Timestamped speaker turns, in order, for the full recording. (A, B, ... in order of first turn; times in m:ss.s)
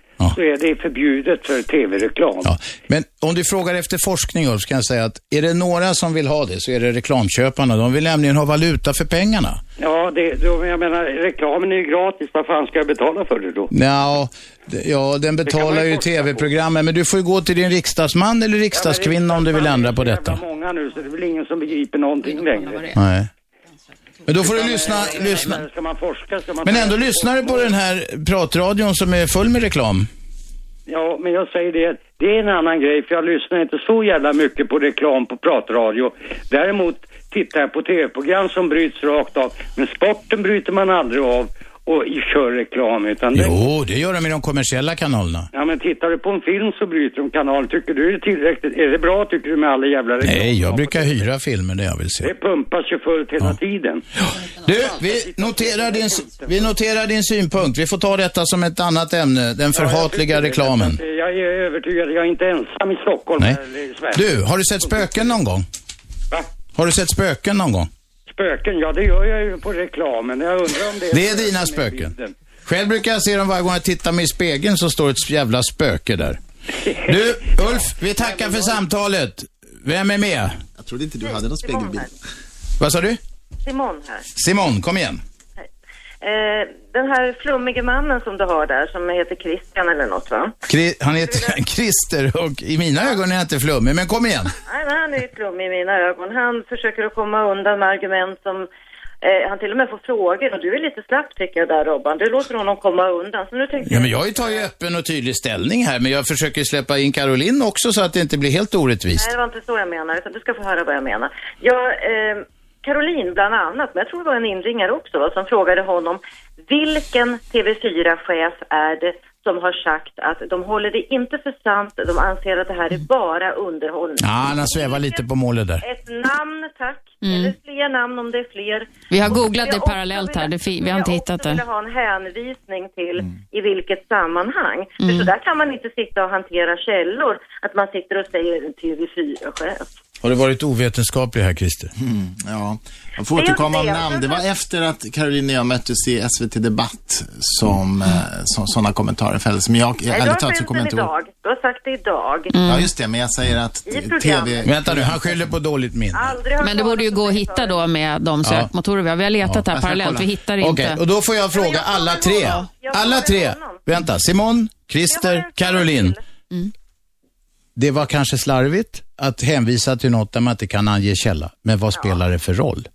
0:00.3-0:02.5 A
0:02.4-0:09.6 B
0:09.8-0:13.7 A
0:13.7-0:20.4 B
0:15.4-0:16.5 A
0:18.7-0:22.9 A
0:22.2-0:23.0 C
0:22.9-0:23.3 B
0:24.2-0:25.6 B
0:24.4-0:27.8 A
0:25.0-0:25.5 C
0:26.6-0:30.1 B
0:30.9-0:43.6 A
0:43.3-0:45.5 B
0:45.5-0:51.2 A
0:50.2-0:52.3 B
0:52.2-0:54.0 A
0:54.3-1:01.0 B
0:54.6-0:56.7 A
0:59.7-1:05.3 A
1:04.1-1:05.6 B
1:06.8-1:07.9 B
1:08.3-1:12.3 A
1:11.1-1:12.1 B
1:12.6-1:16.4 B
1:16.8-1:18.8 A
1:17.1-1:20.6 B
1:20.8-1:22.1 D
1:21.2-1:22.1 E
1:22.8-1:23.2 B
1:23.6-1:24.2 E
1:24.4-1:25.2 B
1:26.2-1:30.5 E
1:30.7-1:34.5 B
1:31.2-1:31.5 E
1:34.6-1:38.7 E
1:39.2-1:44.7 E
1:43.8-1:49.3 B
1:49.2-2:05.2 E
2:04.2-2:05.8 B
2:05.8-2:19.9 E
2:07.2-2:07.5 C
2:09.1-2:11.6 C
2:15.0-2:15.3 C
2:20.2-2:21.9 B
2:22.0-2:31.1 D
2:23.3-2:24.4 E
2:30.1-2:32.5 E
2:32.5-2:32.9 C
2:32.6-2:35.4 D
2:33.8-2:34.7 E
2:34.6-2:36.4 B
2:36.1-2:37.8 E
2:36.6-2:41.0 C
2:38.4-2:38.7 B
2:39.4-2:46.2 B
2:41.5-2:43.8 E
2:45.1-2:46.2 E
2:47.8-2:52.9 B